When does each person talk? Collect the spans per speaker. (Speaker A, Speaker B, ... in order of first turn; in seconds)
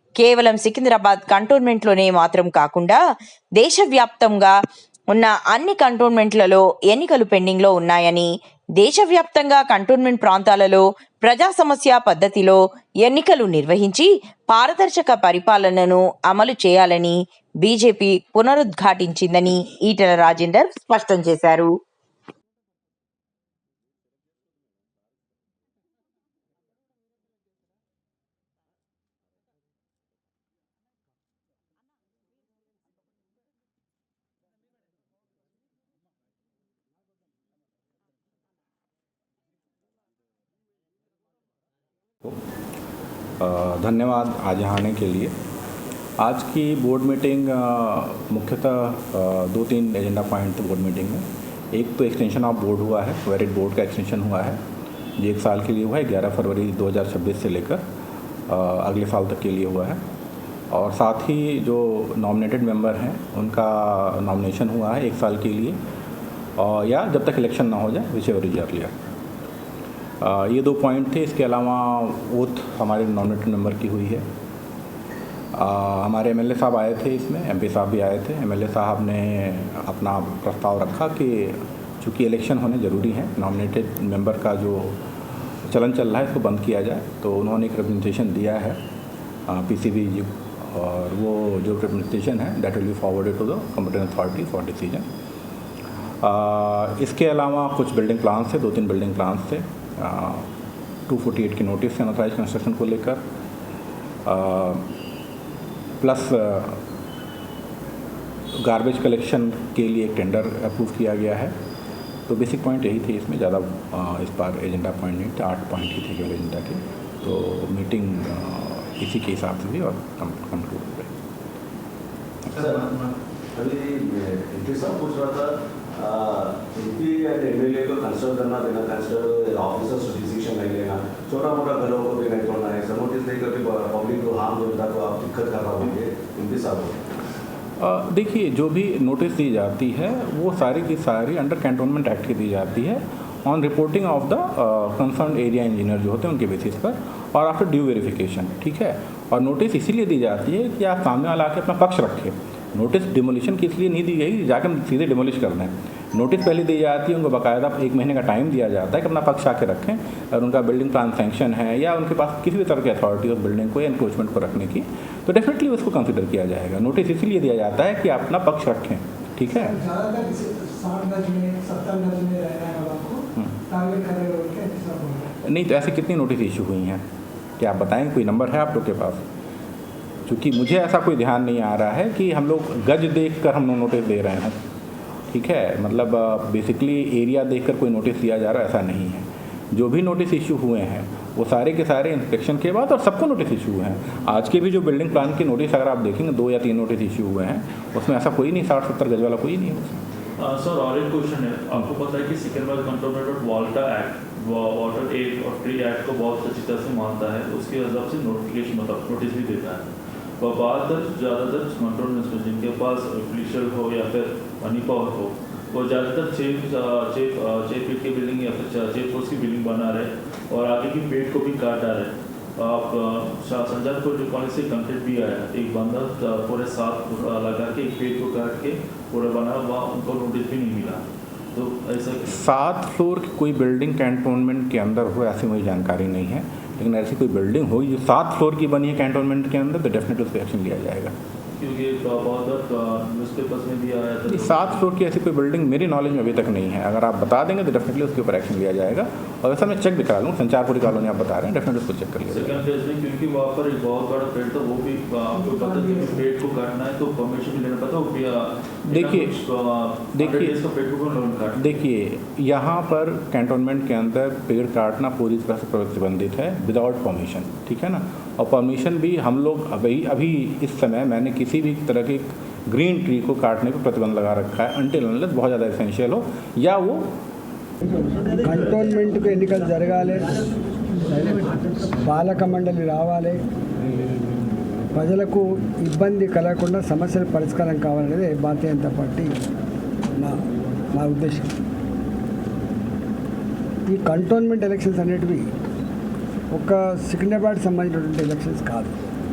Speaker A: 0.2-3.0, 3.6-4.5, 5.1-21.7
Speaker B: 43.4-45.3, 46.2-54.6, 55.2-57.8, 58.5-60.0, 60.7-65.8, 66.6-69.0, 70.2-74.2, 75.5-84.9, 85.7-88.8, 89.5-95.0, 96.2-100.4, 101.1-103.2, 104.2-104.8, 106.0-106.8, 108.6-111.5, 112.3-121.1, 122.5-123.1, 137.8-169.8, 175.4-177.0, 177.6-179.2, 180.2-184.6, 185.3-200.0, 232.3-241.1, 244.3-252.6, 258.9-259.3, 260.1-260.5, 261.5-277.0
Speaker C: 123.5-136.9
Speaker D: 169.6-173.2, 173.7-175.2, 278.3-280.3, 281.1-283.4, 284.9-289.3, 290.9-291.5, 293.9-295.5, 296.5-298.9
Speaker E: 200.4-209.9, 210.4-232.4, 241.6-244.8, 252.3-261.8